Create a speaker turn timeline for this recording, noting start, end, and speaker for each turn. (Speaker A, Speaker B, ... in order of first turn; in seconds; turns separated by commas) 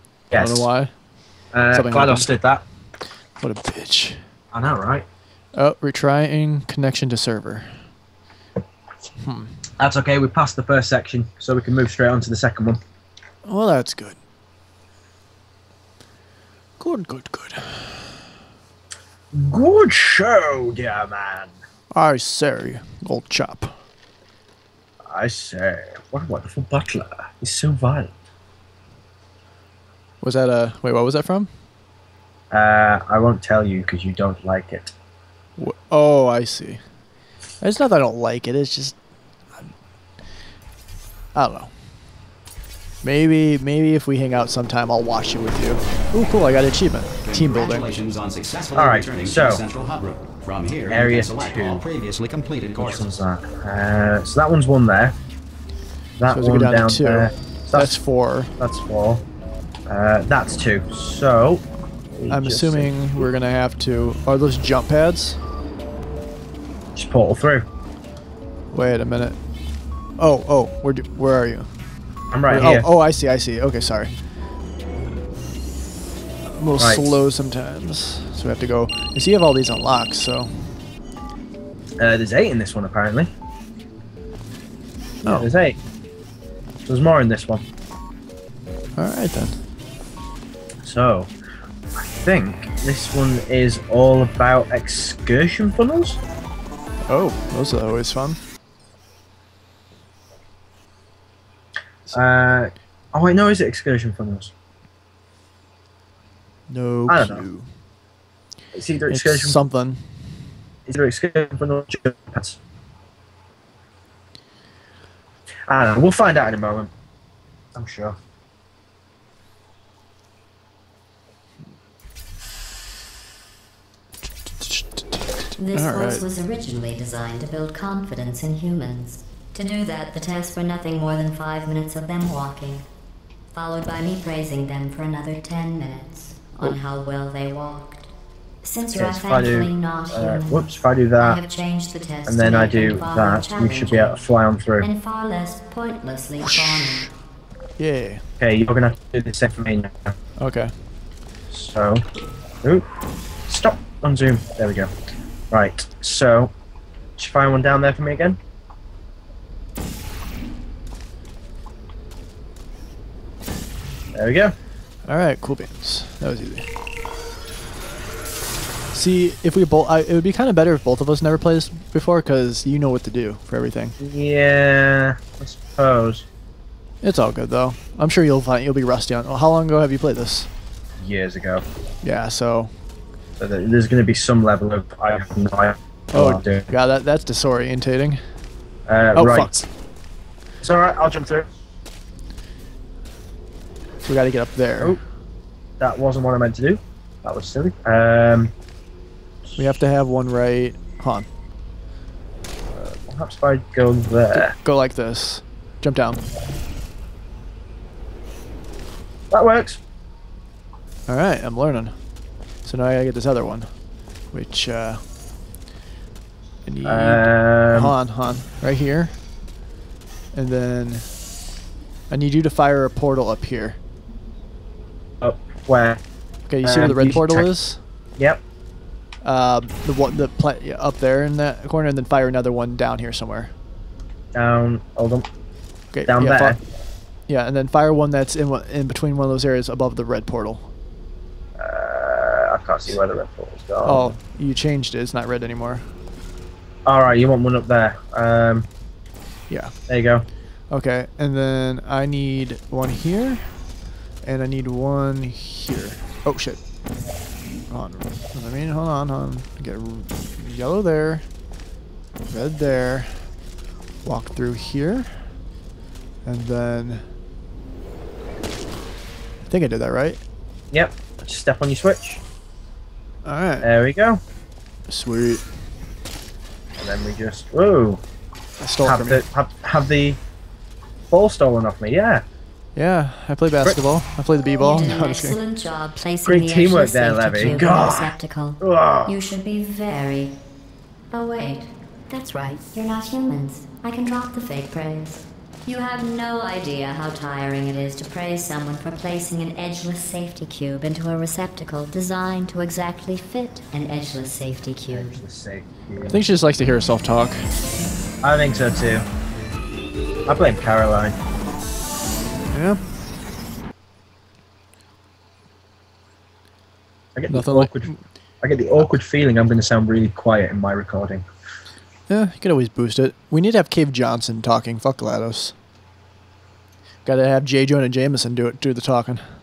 Speaker A: 0.3-0.7, Speaker B: 0.3-0.9, Speaker A: 1.5-2.6, Speaker B: 1.7-2.3, Speaker B: 3.4-4.2, Speaker A: 4.5-5.0, Speaker B: 5.5-7.8, Speaker B: 9.2-9.6, Speaker A: 9.8-12.8, Speaker B: 13.4-14.2, Speaker B: 16.8-18.1, Speaker A: 19.3-21.5, Speaker B: 21.9-23.8, Speaker A: 25.1-28.1, Speaker B: 30.2-31.5, Speaker A: 32.5-34.9, Speaker B: 35.6-36.8, Speaker B: 37.6-39.0, Speaker B: 41.3-41.7, Speaker B: 43.0-47.9, Speaker C: 47.2-53.1, Speaker A: 48.7-49.6, Speaker A: 50.9-51.8, Speaker A: 52.7-55.1, Speaker A: 56.2-58.0, Speaker B: 56.3-58.5, Speaker A: 58.6-59.2, Speaker A: 59.9-63.0, Speaker B: 62.3-65.4, Speaker A: 66.9-67.7, Speaker B: 68.7-69.4, Speaker B: 70.2-71.7, Speaker A: 72.3-72.9, Speaker B: 72.5-74.1, Speaker B: 76.5-80.7, Speaker A: 76.8-77.1, Speaker A: 82.0-83.3, Speaker A: 85.2-85.8, Speaker B: 85.2-85.5, Speaker A: 86.8-87.6, Speaker B: 89.0-89.6, Speaker A: 90.8-91.3, Speaker A: 92.0-96.2, Speaker B: 97.1-98.4, Speaker A: 102.1-104.5, Speaker B: 106.7-107.7, Speaker A: 107.1-107.4, Speaker A: 108.7-109.6, Speaker B: 109.1-110.1, Speaker A: 110.9-112.6, Speaker A: 115.7-116.9, Speaker A: 117.7-118.1, Speaker B: 124.6-126.3, Speaker D: 125.6-132.8, Speaker D: 133.5-138.1, Speaker D: 138.6-144.2, Speaker A: 138.9-141.4, Speaker A: 142.3-144.9, Speaker D: 144.8-147.1, Speaker B: 146.4-147.1, Speaker B: 147.8-148.2, Speaker A: 148.4-150.2, Speaker B: 150.4-150.7, Speaker A: 151.5-152.0, Speaker A: 153.5-154.9, Speaker A: 155.5-156.5, Speaker A: 157.2-158.4, Speaker A: 164.1-164.5, Speaker B: 165.0-166.7, Speaker B: 168.9-173.9, Speaker A: 174.0-176.2, Speaker B: 177.0-180.5, Speaker A: 181.0-181.6, Speaker B: 182.0-182.7, Speaker A: 183.4-186.7, Speaker B: 186.1-188.2, Speaker A: 188.9-189.5, Speaker B: 189.1-189.7, Speaker A: 190.6-191.5, Speaker B: 194.0-195.0, Speaker A: 195.8-198.5, Speaker B: 199.6-201.3, Speaker A: 202.7-204.5, Speaker B: 204.3-206.2, Speaker A: 209.3-209.8, Speaker B: 211.1-211.9, Speaker B: 212.6-213.7, Speaker B: 214.3-215.0, Speaker B: 216.6-219.1, Speaker A: 216.8-217.9, Speaker B: 220.3-221.1, Speaker B: 222.1-223.8, Speaker A: 225.2-226.0, Speaker B: 226.5-227.8, Speaker A: 226.6-227.5, Speaker B: 229.2-233.5, Speaker A: 234.3-235.3, Speaker B: 235.9-236.6, Speaker A: 236.1-236.6, Speaker B: 237.3-240.7, Speaker A: 241.6-244.2, Speaker B: 243.8-245.8, Speaker A: 246.8-248.7, Speaker A: 249.9-250.2, Speaker B: 250.7-253.4, Speaker B: 254.2-256.6, Speaker B: 257.7-261.2, Speaker B: 262.3-263.2, Speaker B: 264.0-265.1, Speaker B: 266.2-267.0, Speaker B: 269.4-270.2, Speaker A: 270.7-272.2, Speaker B: 273.2-273.7, Speaker A: 273.6-274.2, Speaker B: 274.9-275.4, Speaker A: 276.8-278.0, Speaker B: 278.6-279.2, Speaker A: 278.8-280.2, Speaker A: 281.1-282.2, Speaker B: 282.8-285.4, Speaker D: 284.6-290.4, Speaker A: 286.2-289.2, Speaker D: 291.1-305.2, Speaker A: 304.9-306.2, Speaker B: 306.0-307.4, Speaker A: 308.2-309.1, Speaker A: 310.3-311.1, Speaker B: 312.5-312.8, Speaker A: 317.1-321.2, Speaker B: 317.3-318.0, Speaker B: 322.1-325.5, Speaker B: 327.0-329.2